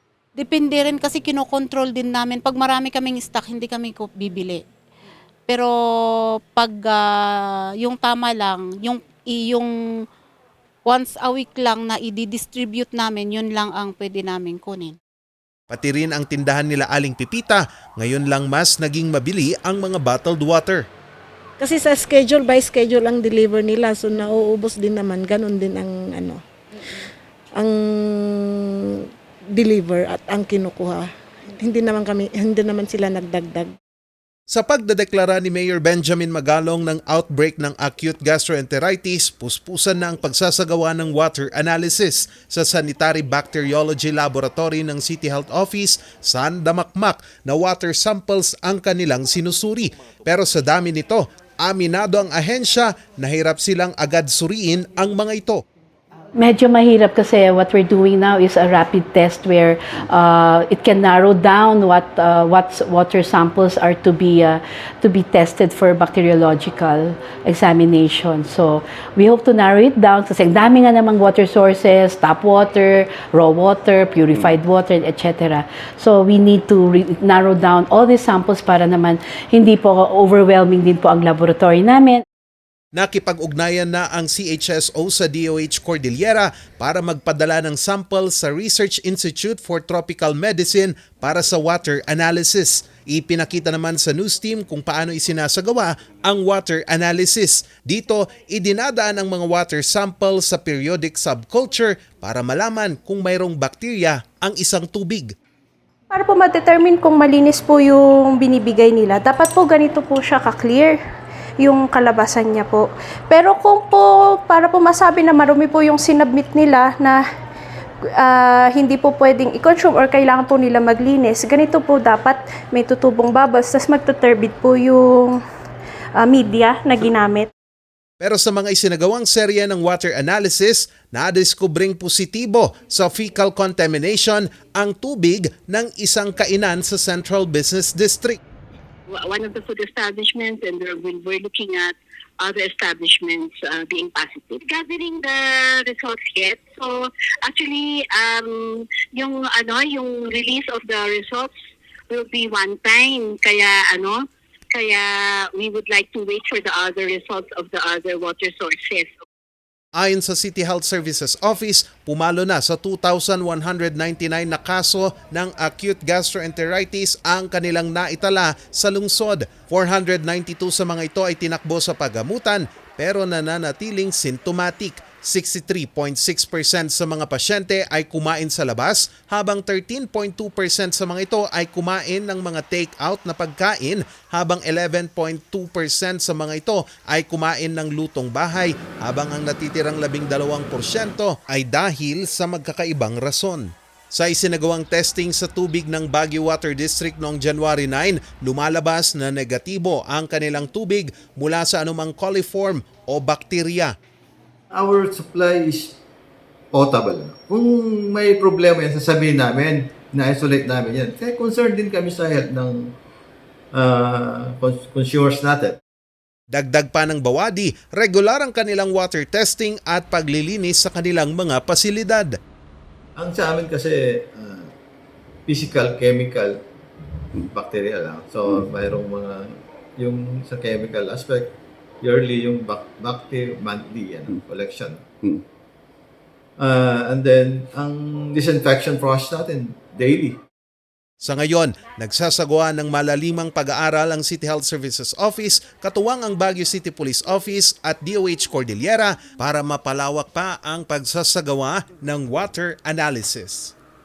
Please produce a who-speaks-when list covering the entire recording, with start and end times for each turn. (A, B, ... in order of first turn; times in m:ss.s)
0:00.5-0:04.6 A
0:06.6-0:06.9 A
0:07.9-0:09.7 A
0:11.1-0:14.9 A
0:15.7-0:20.8 B
0:21.6-0:26.4 C
0:27.6-0:31.1 C
0:31.6-0:33.7 C
0:34.5-0:55.6 B
0:56.4-1:22.2 D
1:23.0-1:45.3 B
1:46.1-1:51.0 E
1:51.6-1:57.2 E
1:58.2-2:05.4 E
2:06.2-2:07.5 E
2:08.2-2:18.4 B
2:19.1-2:31.5 F
2:32.1-2:39.1 F
2:40.0-3:23.9 B
3:24.7-3:25.9 G
3:26.7-3:33.0 G
3:33.7-3:35.8 G
3:36.5-3:42.3 B
3:43.2-3:44.7 G
3:45.5-3:46.6 G
3:47.4-3:49.5 G
3:50.0-3:51.5 G
3:52.0-3:55.4 G
3:56.6-4:00.4 G
4:01.2-4:13.7 B